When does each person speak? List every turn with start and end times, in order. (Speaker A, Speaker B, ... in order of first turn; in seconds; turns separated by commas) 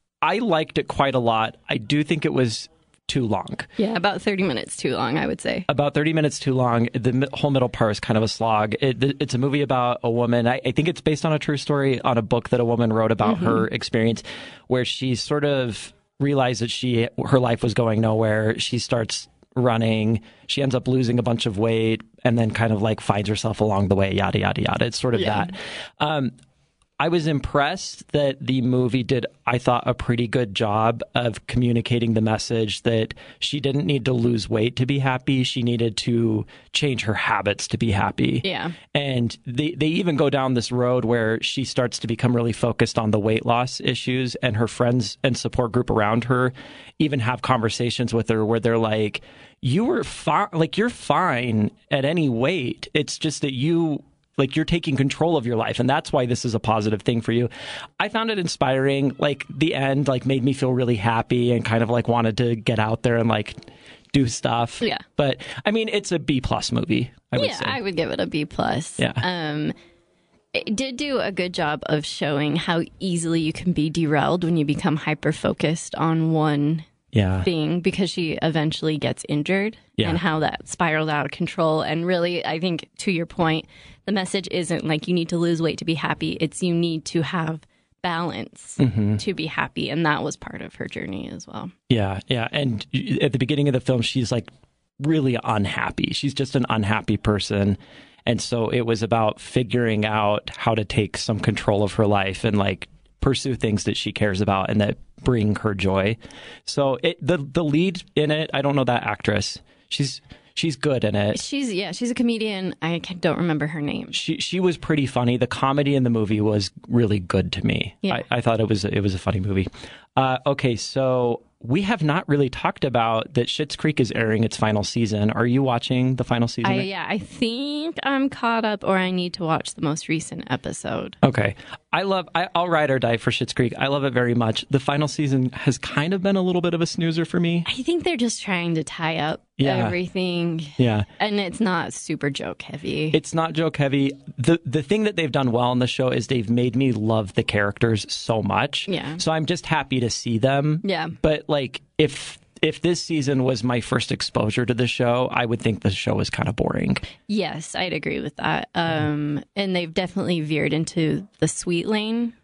Speaker A: 0.2-3.7, Speaker B: 3.8-5.7, Speaker A: 5.7-26.3, Speaker B: 13.2-13.6, Speaker B: 25.2-25.5, Speaker A: 27.0-67.8, Speaker B: 38.4-38.8, Speaker B: 67.3-69.7, Speaker A: 69.0-69.2, Speaker B: 70.5-76.9, Speaker A: 77.1-77.5, Speaker B: 77.4-91.7, Speaker A: 88.8-89.2, Speaker A: 91.9-94.5, Speaker A: 95.0-111.4, Speaker B: 111.3-114.2, Speaker A: 114.1-126.9, Speaker B: 126.6-131.2, Speaker A: 131.2-137.7, Speaker B: 137.7-143.2, Speaker A: 139.6-140.0, Speaker A: 140.8-141.1, Speaker A: 143.1-157.0, Speaker B: 148.9-149.2, Speaker B: 150.8-151.2, Speaker B: 157.3-162.3